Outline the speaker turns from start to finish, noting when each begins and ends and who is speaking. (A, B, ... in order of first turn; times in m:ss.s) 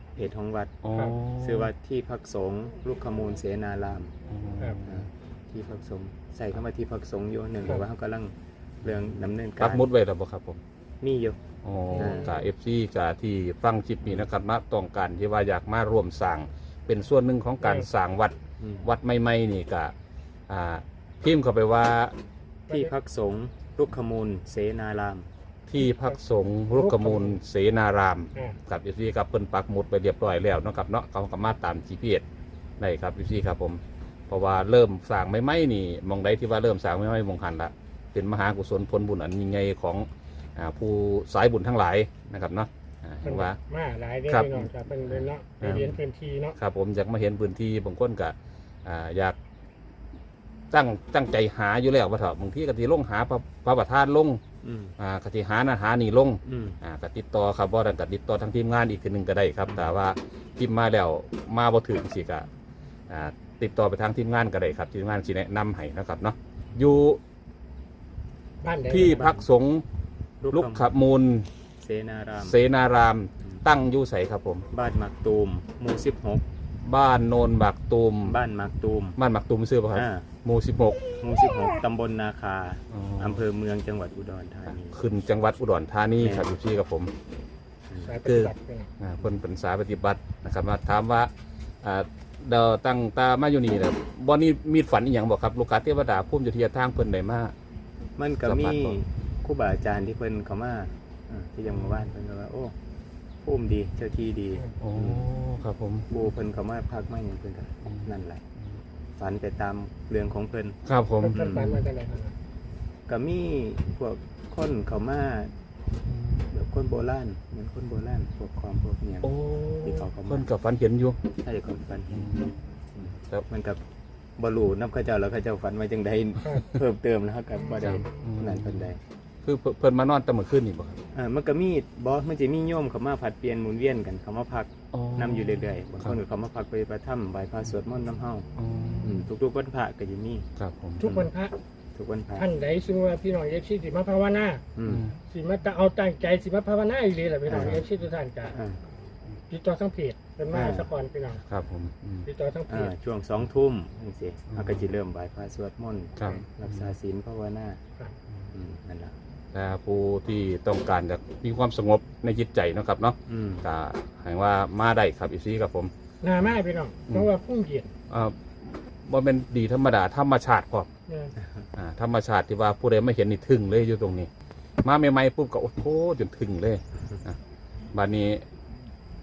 0:00.2-0:00.8 A
0:00.8-0:01.7 B
0:01.4-0:04.2 A
0:04.3-0:05.0 B
0:04.8-0:09.9 A
0:09.6-0:10.6 B
0:11.0-0:11.4 A
0:11.6-0:19.9 B
0:11.9-0:12.5 C
0:12.0-0:12.4 A
0:17.6-0:17.9 C
0:18.6-0:18.9 A
0:20.5-0:22.2 B
0:22.7-0:25.3 A
0:25.7-0:32.2 B
0:26.7-0:27.4 C
0:32.8-0:43.6 B
0:43.2-0:46.6 C
0:44.3-0:46.0 B
0:46.6-0:49.4 B
0:50.7-0:54.4 B
0:54.6-0:55.0 A
0:55.0-1:02.5 B
0:56.4-0:56.8 A
1:03.1-1:07.2 B
1:08.6-1:09.5 C
1:08.9-1:09.8 B
1:10.4-1:10.9 A
1:10.5-1:11.5 B
1:11.8-1:12.6 A
1:12.4-1:14.7 B
1:14.7-1:16.4 A
1:16.8-1:18.4 B
1:18.2-1:19.2 A
1:19.2-1:21.0 B
1:19.9-1:20.3 A
1:21.2-1:25.0 A
1:22.9-1:23.4 B
1:24.7-1:27.1 B
1:26.2-1:26.5 A
1:27.9-1:28.2 A
1:28.0-1:28.9 C
1:28.2-1:31.3 B
1:31.8-1:37.5 B
1:38.2-1:42.7 A
1:38.4-1:39.0 B
1:43.4-1:45.3 A
1:44.8-1:46.1 B
1:46.1-1:48.4 A
1:47.8-1:48.1 B
1:49.2-1:50.8 A
1:50.9-1:51.6 B
1:51.2-1:52.4 C
1:51.3-1:51.8 A
1:53.1-1:55.5 A
1:56.1-1:56.5 B
1:56.5-2:00.5 A
1:59.2-2:01.2 B
2:01.4-2:02.3 A
2:02.1-2:02.6 B
2:03.0-2:03.8 A
2:03.1-2:03.4 B
2:04.4-2:09.0 A
2:07.8-2:08.9 B
2:09.4-2:11.0 B
2:11.1-2:18.5 A
2:14.9-2:16.2 B
2:18.6-2:19.3 B
2:19.0-2:20.5 A
2:20.6-2:21.1 B
2:21.0-2:21.6 C
2:21.0-2:21.3 A
2:21.9-2:22.5 A
2:22.4-2:24.6 C
2:24.8-2:25.1 A
2:24.8-2:25.2 B
2:25.3-2:28.6 C
2:27.5-2:27.8 A
2:27.5-2:27.8 B
2:28.5-2:28.8 A
2:29.5-2:31.4 C
2:30.5-2:30.9 A
2:31.4-2:32.3 B
2:32.2-2:32.9 C
2:32.7-2:37.8 A
2:34.5-2:34.9 B
2:36.2-2:36.9 B
2:38.5-2:39.2 A
2:39.5-2:46.5 B
2:43.3-2:43.6 A
2:46.2-2:47.9 C
2:48.1-2:50.9 B
2:51.1-2:51.4 C
2:51.8-2:54.3 B
2:54.8-2:57.4 B
2:57.9-2:58.4 B